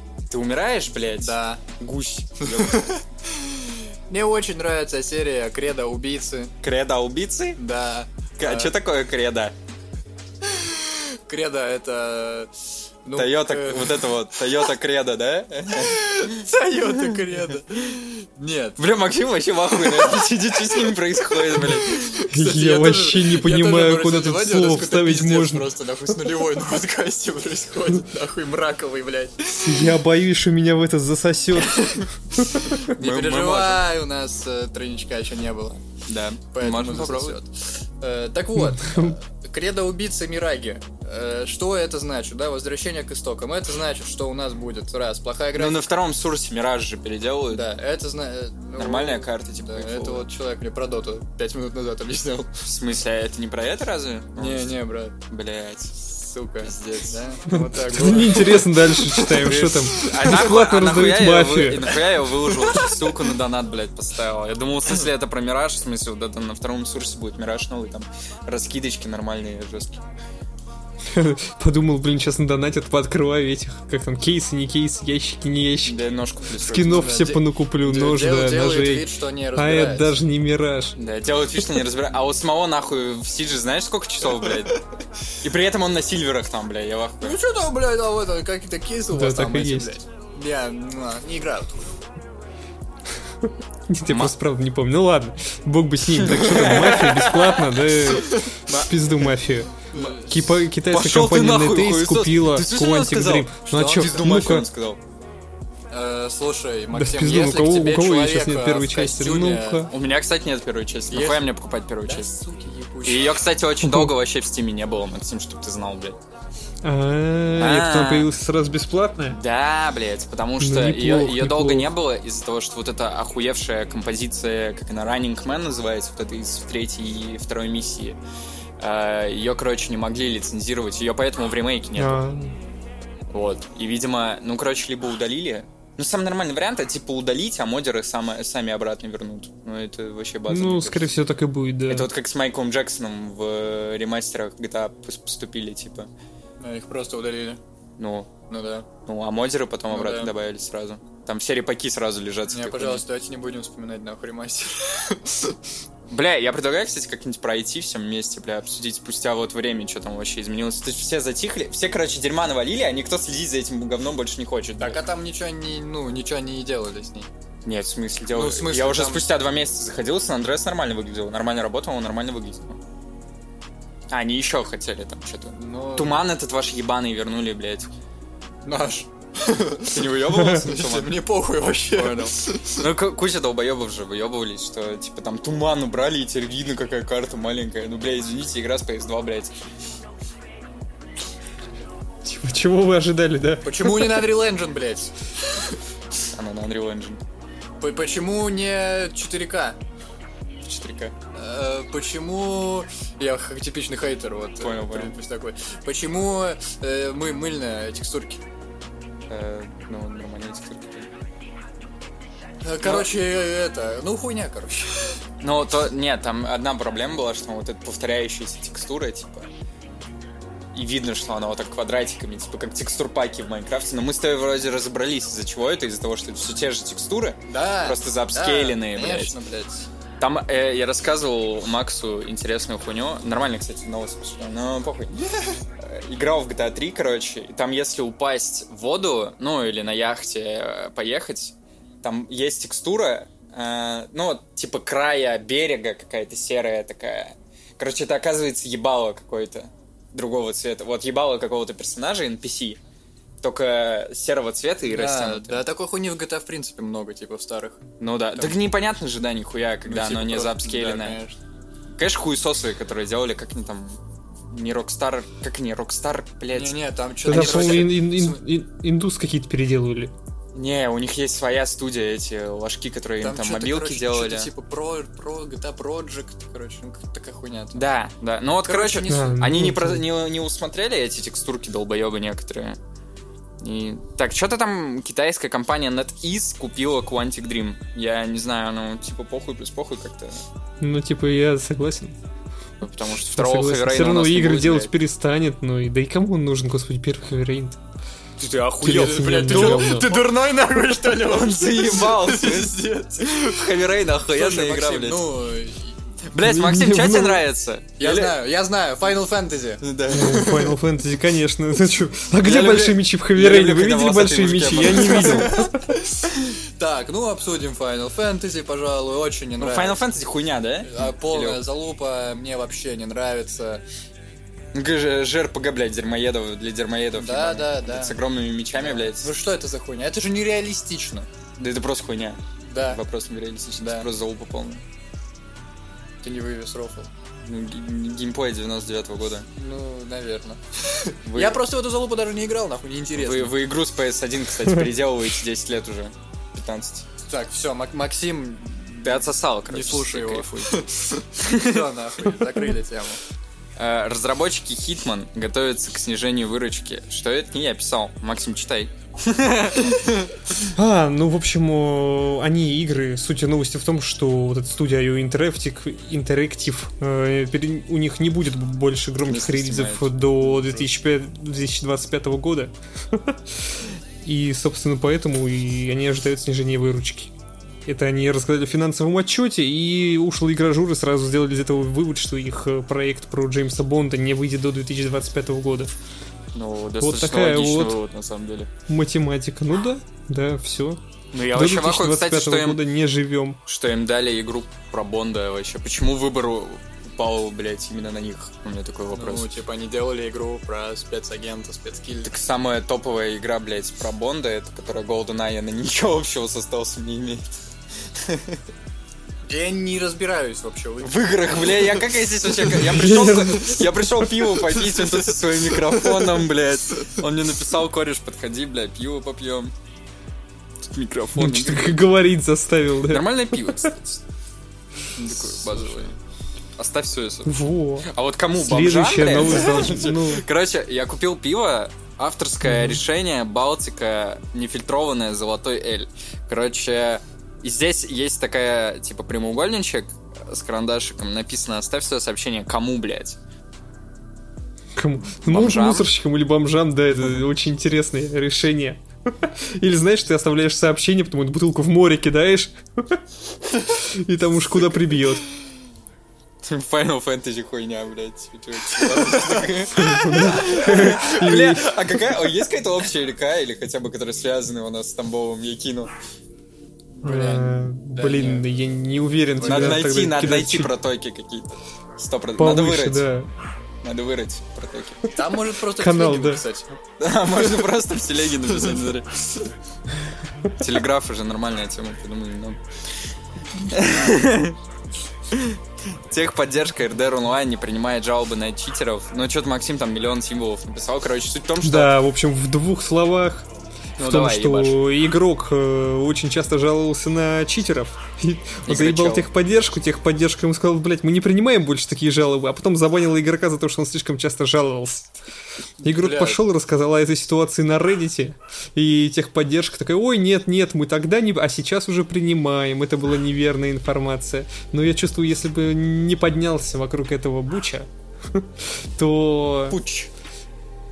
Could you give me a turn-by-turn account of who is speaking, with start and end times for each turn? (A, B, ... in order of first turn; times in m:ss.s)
0:00.3-0:02.9 A
0:01.2-0:01.6 B
0:02.4-0:06.5 B
0:06.6-0:07.6 A
0:07.6-0:08.7 B
0:08.4-0:09.6 A
0:10.4-0:12.5 B
0:13.0-0:14.2 B
0:13.1-0:16.5 A
0:15.8-0:18.8 B
0:18.8-0:22.2 A
0:19.7-0:20.6 B
0:21.6-0:29.9 B
0:22.3-0:25.7 C
0:29.5-0:32.7 C
0:31.7-0:32.0 B
0:32.6-0:35.8 B
0:32.9-0:33.9 A
0:36.1-0:37.4 A
0:36.5-0:45.9 B
0:38.6-0:39.1 C
0:45.5-0:47.7 A
0:47.5-0:52.5 B
0:48.8-0:50.3 A
0:52.6-0:54.8 A
0:54.4-0:55.2 B
0:55.3-0:55.9 A
0:55.9-0:59.4 B
0:56.6-0:57.2 A
0:57.5-1:02.0 C
0:59.2-1:10.1 A
1:00.0-1:00.2 B
1:02.6-1:02.9 B
1:11.1-1:16.0 C
1:15.8-1:17.3 A
1:16.6-1:21.0 C
1:16.8-1:20.2 B
1:21.0-1:24.7 A
1:25.4-1:27.4 A
1:27.2-1:31.8 B
1:29.1-1:30.0 C
1:33.9-1:44.7 C
1:34.1-1:34.3 A
1:36.2-1:37.6 A
1:36.3-1:39.3 B
1:39.9-1:40.6 B
1:40.9-1:45.0 A
1:43.6-1:44.4 B
1:45.9-1:49.9 B
1:46.9-1:49.9 C
1:49.9-1:52.3 A
1:51.1-1:51.5 B
1:52.0-1:53.4 B
1:53.0-1:56.2 A
1:53.8-1:54.1 C
1:56.8-1:59.4 C
1:57.6-1:58.3 A
1:59.3-2:08.2 A
2:00.6-2:01.9 C
2:08.8-2:12.2 A
2:12.0-2:12.5 C
2:13.3-2:21.2 A
2:20.5-2:22.1 C
2:21.9-2:26.1 A
2:26.6-2:27.6 B
2:28.0-2:28.3 A
2:28.5-2:28.9 B
2:29.0-2:33.0 A
2:29.9-2:30.3 B
2:32.5-2:35.6 B
2:36.1-2:45.0 A
2:44.8-2:47.3 B
2:47.6-2:52.8 A
2:48.3-2:49.3 B
2:54.1-2:57.9 A
2:55.5-2:56.2 B
2:58.6-3:02.8 B
2:59.9-3:01.2 A
3:01.9-3:09.5 A
3:12.2-3:14.3 C
3:13.6-3:15.1 B
3:16.3-3:17.2 A
3:17.8-3:19.8 B
3:20.6-3:21.1 A
3:21.3-3:28.4 B
3:24.6-3:25.1 A
3:29.3-3:31.1 A
3:32.6-3:35.2 B
3:32.8-3:33.1 A
3:35.4-3:39.5 A
3:40.7-3:49.4 A
3:47.5-3:49.9 B
3:50.2-3:55.1 A
3:55.8-4:12.8 A
4:13.4-4:15.7 A
4:14.9-4:17.8 B
4:18.0-4:21.2 A
4:19.8-4:21.4 B
4:21.9-4:28.0 A
4:26.5-4:28.4 B
4:27.3-4:30.1 C
4:30.5-4:34.5 A
4:33.2-4:37.8 B
4:37.7-4:42.8 A
4:38.6-4:39.4 B
4:39.1-4:40.0 C
4:43.6-4:50.4 A
4:50.8-4:52.2 C
4:52.8-4:54.9 A
4:53.3-4:57.8 C
4:58.4-5:00.2 A
4:58.8-5:00.1 C
4:58.8-5:03.6 B
5:01.0-5:05.3 A
5:04.3-5:06.0 B
5:06.3-5:08.4 A
5:06.4-5:07.4 C
5:08.0-5:10.8 B
5:09.8-5:10.6 A
5:10.1-5:15.8 C
5:12.4-5:15.7 A
5:15.2-5:20.0 B
5:19.6-5:21.6 A
5:20.8-5:23.8 B
5:24.7-5:29.3 A
5:27.1-5:28.2 B
5:28.7-5:31.3 B
5:31.6-5:34.8 A
5:32.6-5:33.0 B
5:33.8-5:34.1 B
5:36.2-5:37.1 B
5:37.4-5:39.5 A
5:39.5-5:43.6 B
5:41.2-5:41.6 A
5:43.2-5:47.0 A
5:47.2-5:53.2 B
5:49.0-5:50.8 A
5:51.4-5:51.8 A
5:53.8-6:00.6 A
6:00.7-6:17.3 C
6:09.2-6:10.2 A
6:10.4-6:10.8 B
6:17.8-6:25.9 C
6:26.5-6:28.7 A
6:27.0-6:28.0 C
6:28.9-6:33.6 C
6:31.3-6:32.8 A
6:33.7-6:39.5 A
6:39.1-6:42.3 B
6:42.2-6:48.6 A
6:49.4-6:52.0 B
6:51.0-6:59.7 A
6:52.7-6:54.5 C
7:00.8-7:02.0 A
7:01.4-7:03.8 C
7:03.1-7:04.2 A
7:05.1-7:06.2 A
7:05.7-7:06.1 B
7:06.8-7:23.4 A
7:07.4-7:10.4 C
7:12.6-7:13.0 C
7:25.0-7:35.4 C
7:25.4-7:26.1 A
7:36.6-7:46.1 A
7:39.9-7:42.2 C
7:47.2-7:48.9 B
7:47.2-7:50.9 C
7:49.6-7:50.2 B
7:49.6-7:53.3 A
7:52.6-7:53.5 C
7:54.0-7:55.3 A
7:55.3-7:57.0 B
7:55.9-7:56.6 C
7:57.2-7:59.7 A
7:58.8-7:59.0 B
8:00.8-8:02.8 A
8:03.8-8:04.8 A
8:05.5-8:12.1 A
8:11.8-8:13.7 C
8:14.2-8:15.0 A
8:14.2-8:25.3 C
8:18.8-8:19.5 A
8:26.0-8:26.6 B
8:26.0-8:40.0 C
8:39.9-8:40.3 A